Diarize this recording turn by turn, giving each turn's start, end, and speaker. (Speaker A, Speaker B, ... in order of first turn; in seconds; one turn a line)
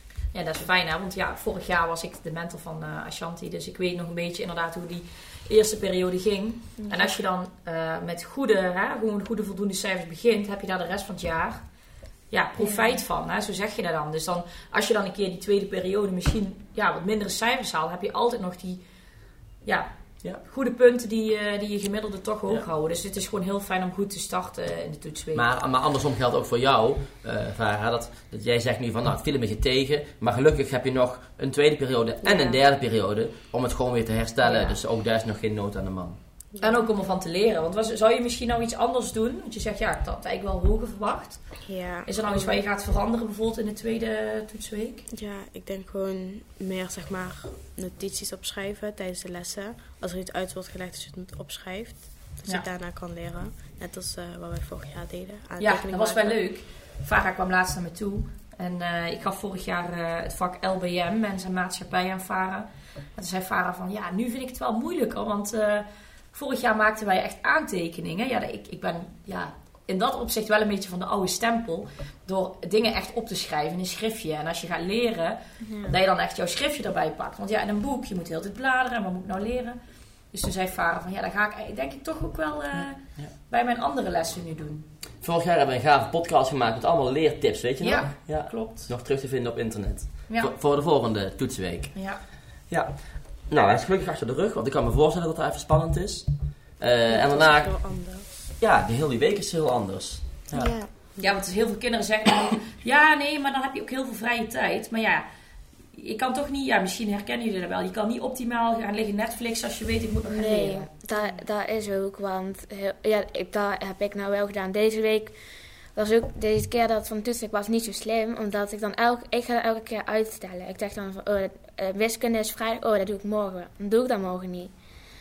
Speaker A: 0.3-11.6
Speaker B: 6.8-7.1
Speaker A: 12.3-18.8
Speaker B: 12.6-13.0
Speaker A: 19.6-25.5
Speaker C: 25.3-36.2
Speaker D: 32.2-32.6
Speaker D: 36.5-36.8
Speaker A: 36.6-45.0
Speaker D: 41.6-42.6
Speaker D: 45.1-56.4
Speaker A: 55.6-79.8
Speaker B: 75.6-75.9
Speaker A: 80.3-84.9
Speaker C: 85.2-92.1
Speaker A: 87.8-88.9
Speaker A: 90.3-90.5
Speaker A: 91.9-92.2
Speaker C: 92.7-97.9
Speaker D: 97.1-98.2
Speaker C: 98.6-100.7
Speaker D: 100.5-101.3
Speaker A: 101.2-105.2
Speaker A: 105.9-110.9
Speaker B: 110.3-115.4
Speaker B: 115.9-124.7